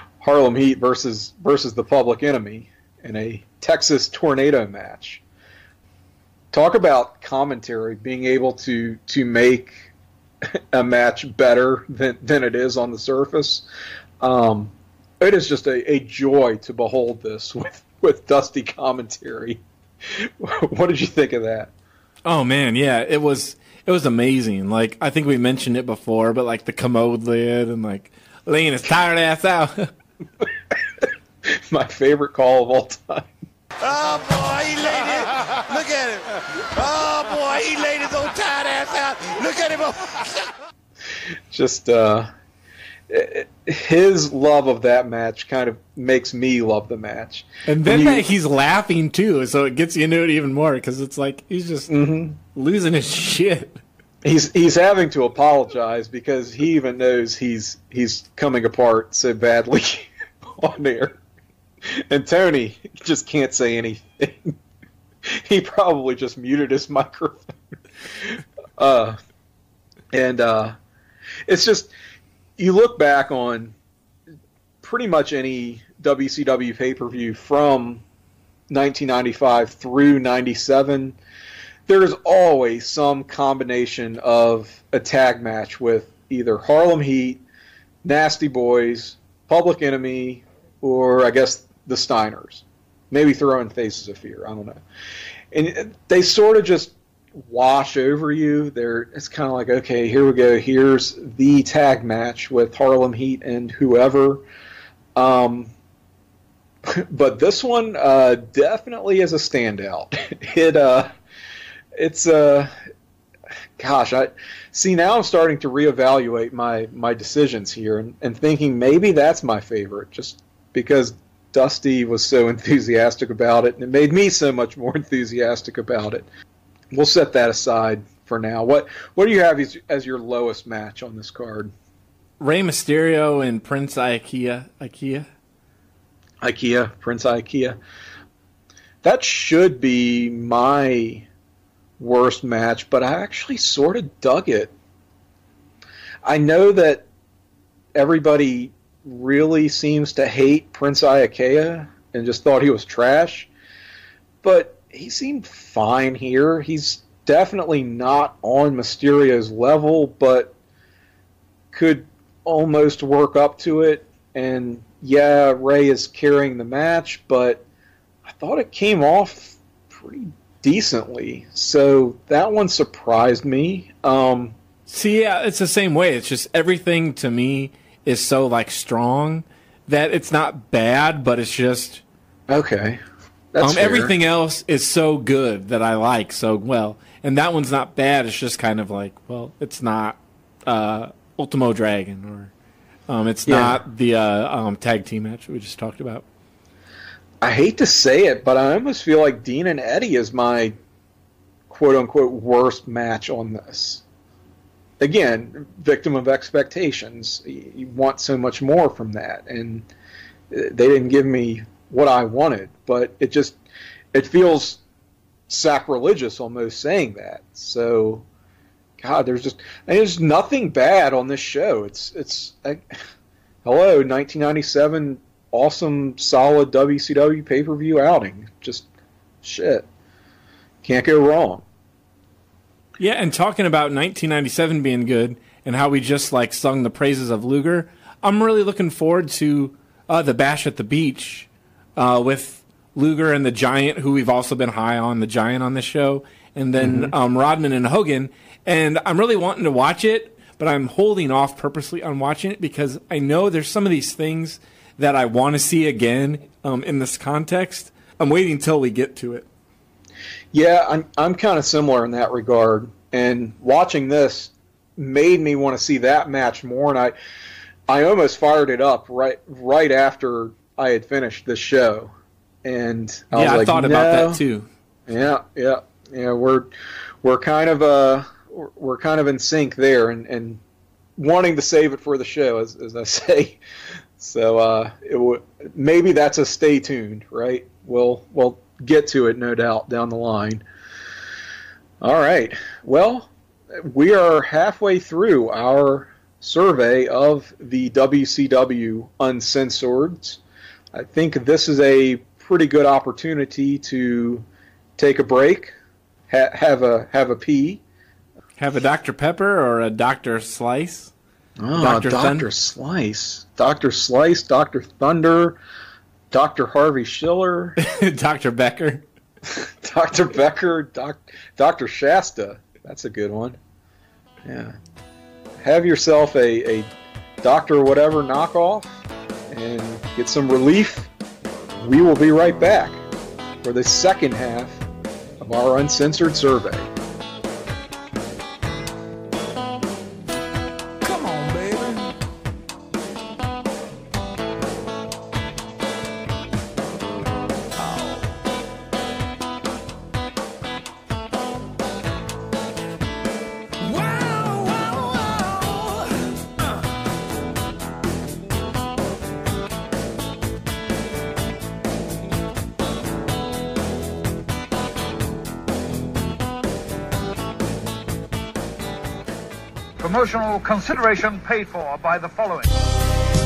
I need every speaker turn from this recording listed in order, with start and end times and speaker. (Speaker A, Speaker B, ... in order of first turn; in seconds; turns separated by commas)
Speaker A: 0.2-5.2, Speaker A: 6.5-9.9, Speaker A: 10.7-13.7, Speaker A: 14.2-21.7, Speaker B: 22.2-29.9, Speaker A: 31.0-33.2, Speaker C: 33.8-40.5, Speaker A: 41.5-42.3, Speaker A: 43.1-48.2, Speaker B: 47.7-53.8, Speaker A: 51.9-52.4, Speaker A: 54.2-61.2, Speaker A: 61.9-64.5, Speaker A: 65.3-67.5, Speaker A: 68.2-69.2, Speaker A: 70.1-70.8, Speaker A: 71.5-71.9, Speaker A: 72.6-73.7, Speaker A: 74.8-78.0, Speaker A: 78.7-81.2, Speaker A: 81.9-87.4, Speaker A: 88.0-94.8, Speaker A: 95.5-96.9, Speaker A: 97.5-104.4, Speaker A: 105.2-105.7, Speaker A: 106.9-111.1, Speaker A: 112.0-112.7, Speaker A: 113.8-126.3, Speaker A: 126.9-131.7, Speaker B: 132.4-135.3, Speaker A: 136.4-137.8, Speaker A: 139.0-141.3, Speaker A: 142.0-144.7, Speaker A: 146.2-147.1, Speaker A: 147.9-153.5, Speaker A: 154.4-160.5, Speaker A: 161.7-167.6, Speaker A: 168.3-174.6, Speaker B: 174.9-182.0, Speaker A: 182.5-183.0, Speaker A: 183.5-184.1, Speaker B: 183.6-192.5, Speaker B: 193.1-196.2, Speaker A: 193.5-193.8, Speaker A: 197.4-200.8, Speaker A: 201.7-204.0, Speaker A: 205.0-209.9, Speaker A: 210.5-213.6, Speaker A: 214.1-214.8, Speaker A: 215.5-218.2, Speaker A: 219.0-222.8, Speaker A: 223.7-228.9, Speaker A: 229.4-229.9, Speaker A: 230.8-231.6, Speaker B: 233.0-259.5, Speaker A: 246.8-247.1, Speaker A: 260.5-267.1, Speaker A: 267.9-272.1, Speaker A: 272.6-274.4, Speaker B: 273.3-274.7, Speaker A: 275.1-276.7, Speaker A: 277.2-280.6, Speaker A: 281.2-283.6, Speaker A: 284.2-290.6, Speaker A: 292.0-300.4, Speaker A: 300.9-304.4, Speaker A: 305.0-305.8, Speaker A: 306.3-307.8, Speaker B: 308.6-311.1, Speaker A: 311.6-315.6, Speaker B: 311.8-312.5, Speaker A: 316.3-317.8, Speaker B: 317.8-319.1, Speaker A: 319.5-323.6, Speaker A: 324.4-324.8, Speaker A: 325.6-326.9, Speaker A: 327.4-328.9, Speaker A: 329.5-331.1, Speaker A: 331.8-333.0, Speaker A: 333.6-334.8, Speaker A: 335.4-336.9, Speaker D: 341.0-342.0, Speaker D: 347.8-348.1, Speaker D: 353.8-355.9, Speaker D: 370.2-370.8, Speaker D: 371.4-372.6